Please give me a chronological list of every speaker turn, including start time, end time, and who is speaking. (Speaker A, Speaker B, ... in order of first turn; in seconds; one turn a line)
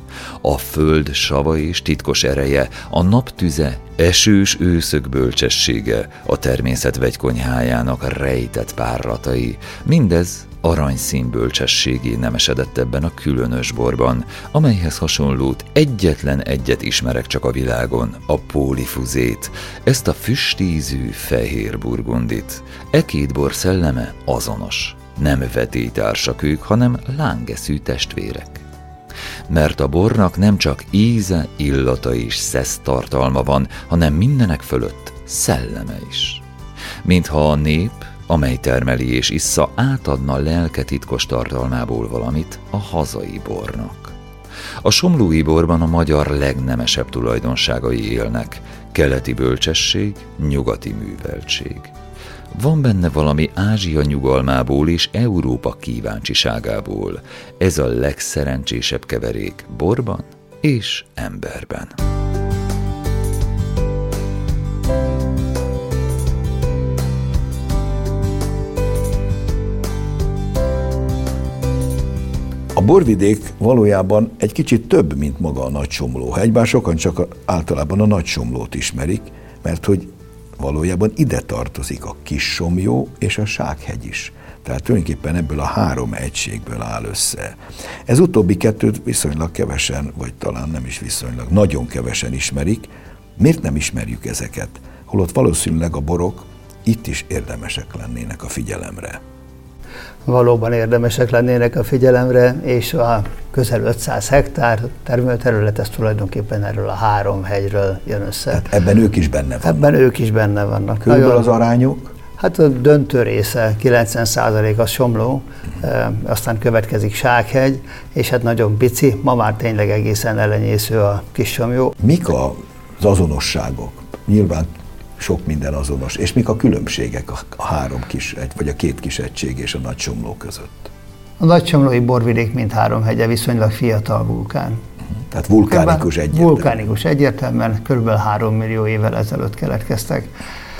Speaker A: 0.4-28.6
Speaker A: 29.5-36.4
Speaker A: 37.0-44.1
Speaker A: 44.8-51.9
Speaker A: 52.5-62.0
Speaker B: 72.7-87.5
Speaker B: 88.1-99.2
Speaker C: 100.3-108.7
Speaker B: 108.5-109.8
Speaker C: 109.6-111.4
Speaker B: 111.0-112.1
Speaker C: 112.4-121.9
Speaker B: 122.0-130.9
Speaker C: 131.4-134.8
Speaker B: 135.3-136.9
Speaker C: 135.7-140.3